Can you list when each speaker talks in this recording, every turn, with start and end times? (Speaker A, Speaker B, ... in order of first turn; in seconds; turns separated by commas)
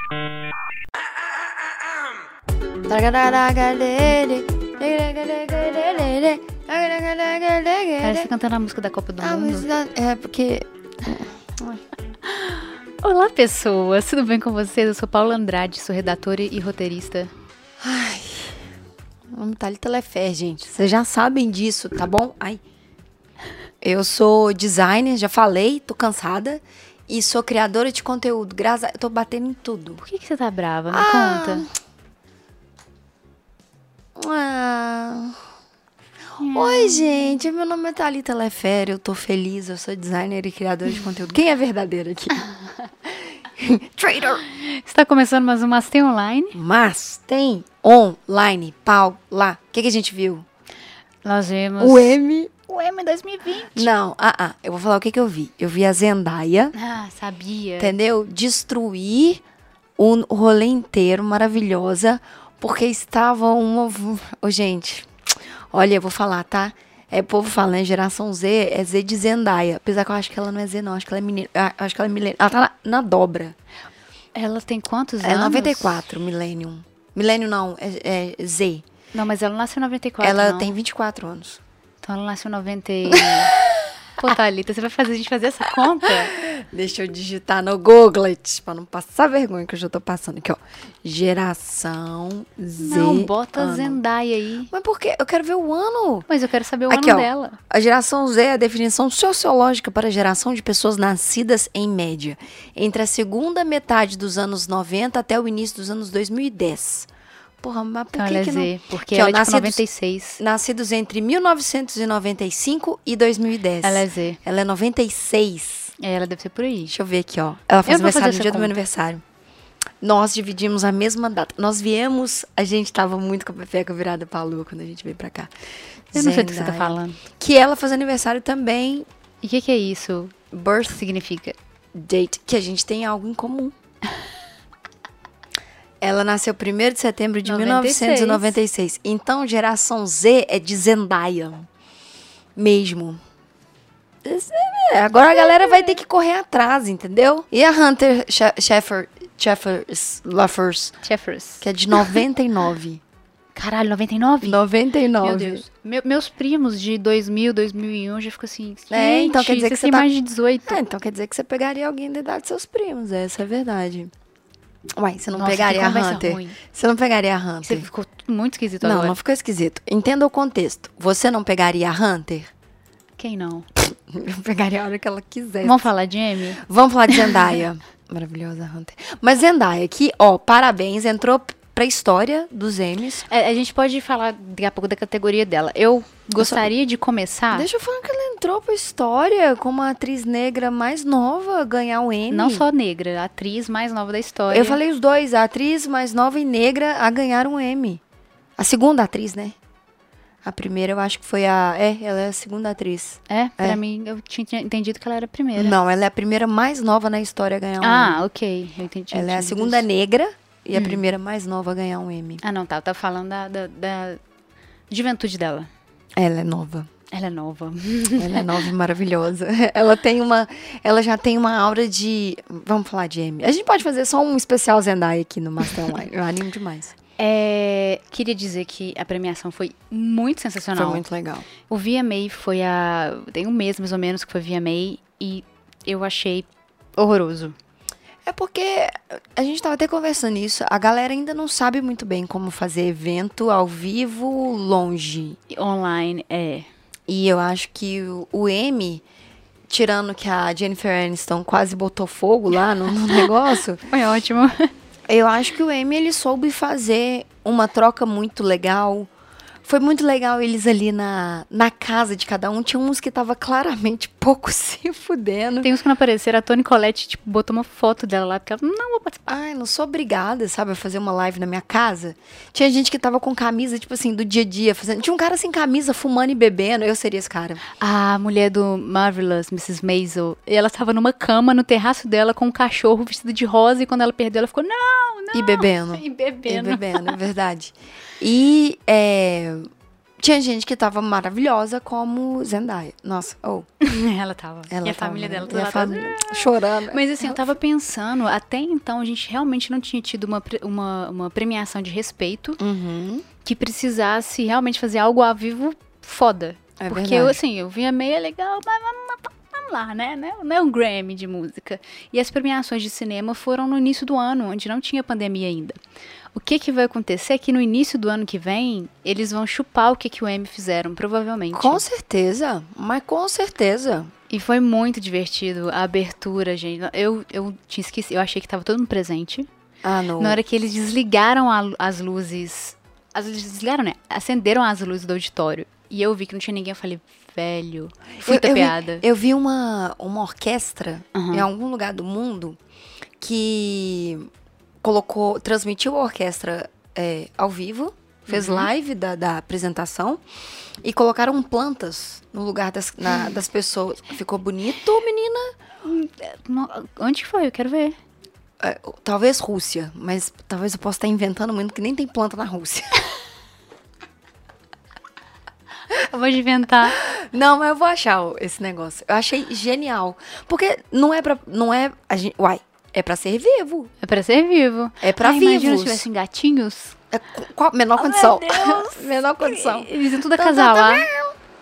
Speaker A: 2.9-8.3, Speaker B: 8.0-9.7, Speaker A: 9.2-11.8, Speaker B: 12.2-17.3, Speaker A: 17.8-18.6, Speaker A: 19.3-22.6, Speaker A: 23.8-30.0, Speaker B: 30.0-31.6, Speaker A: 30.9-31.7, Speaker A: 34.2-35.4, Speaker B: 36.4-37.3, Speaker A: 36.5-42.4, Speaker A: 43.1-44.4, Speaker B: 44.5-46.6, Speaker A: 46.5-50.4, Speaker B: 51.2-53.9, Speaker A: 51.8-52.5, Speaker A: 53.7-56.7, Speaker B: 56.7-57.9, Speaker A: 57.8-59.4, Speaker A: 60.0-65.1, Speaker A: 65.7-73.6, Speaker B: 74.3-76.0, Speaker A: 75.2-78.8, Speaker B: 79.1-80.7, Speaker A: 80.2-81.6, Speaker B: 82.0-83.5, Speaker A: 83.1-83.7, Speaker B: 84.2-86.3, Speaker A: 85.8-94.0, Speaker B: 92.8-94.7, Speaker A: 94.7-96.3, Speaker B: 96.3-97.6, Speaker A: 96.9-107.1, Speaker A: 107.6-109.8, Speaker B: 108.1-110.4, Speaker A: 110.4-115.9, Speaker B: 113.8-114.4, Speaker B: 116.0-117.0, Speaker A: 116.9-119.2, Speaker B: 117.9-118.7, Speaker A: 120.0-125.5, Speaker A: 126.1-129.1, Speaker B: 126.1-127.2, Speaker B: 129.4-130.4, Speaker A: 130.5-131.0, Speaker B: 130.9-131.6, Speaker A: 131.9-133.7, Speaker A: 136.0-141.7, Speaker B: 137.4-138.6, Speaker A: 142.6-143.2, Speaker A: 144.2-151.0, Speaker B: 145.3-145.9, Speaker B: 151.0-152.2, Speaker A: 151.6-153.0, Speaker B: 153.6-154.6, Speaker A: 154.4-155.7, Speaker B: 155.2-160.8, Speaker A: 158.9-160.1, Speaker A: 160.7-164.1, Speaker A: 165.0-167.9, Speaker B: 165.3-166.6, Speaker B: 167.7-169.2, Speaker A: 168.8-172.5, Speaker B: 173.2-173.7, Speaker A: 173.8-175.9, Speaker B: 175.6-177.5, Speaker A: 176.6-183.2, Speaker B: 183.3-187.7, Speaker A: 186.3-186.7, Speaker A: 187.5-192.7, Speaker B: 192.3-194.8, Speaker A: 194.5-198.0, Speaker A: 198.6-199.6, Speaker A: 200.4-203.8, Speaker B: 203.3-205.8, Speaker A: 205.6-208.2, Speaker B: 207.8-209.8, Speaker A: 209.1-212.4, Speaker B: 210.7-211.0, Speaker B: 212.4-214.2, Speaker B: 214.9-215.7, Speaker A: 216.2-216.9, Speaker B: 217.1-218.7, Speaker A: 218.2-226.9, Speaker B: 227.2-231.1, Speaker A: 230.7-231.5, Speaker B: 231.7-237.6, Speaker A: 238.2-245.4, Speaker B: 245.5-246.7, Speaker A: 247.1-249.0, Speaker A: 249.7-253.8, Speaker B: 253.8-254.7, Speaker A: 255.1-259.1, Speaker A: 259.6-265.7, Speaker B: 265.6-269.3, Speaker A: 269.3-277.6, Speaker B: 277.8-287.2, Speaker A: 285.3-289.7, Speaker A: 290.2-293.7, Speaker B: 293.8-302.6, Speaker A: 294.7-297.5, Speaker A: 302.6-303.2, Speaker B: 303.4-315.8, Speaker A: 306.8-307.4, Speaker B: 316.3-321.8, Speaker A: 321.5-324.1, Speaker B: 324.3-329.5, Speaker A: 329.8-330.4, Speaker B: 330.2-339.0, Speaker A: 338.2-342.6, Speaker B: 341.1-341.4, Speaker A: 343.2-344.3, Speaker A: 344.8-350.2, Speaker B: 348.3-348.7, Speaker A: 350.8-355.5, Speaker B: 355.8-357.9, Speaker A: 358.6-363.0, Speaker B: 365.9-367.0, Speaker A: 367.0-373.9, Speaker B: 374.0-377.0, Speaker A: 375.0-376.1, Speaker A: 377.1-381.3, Speaker B: 377.9-381.1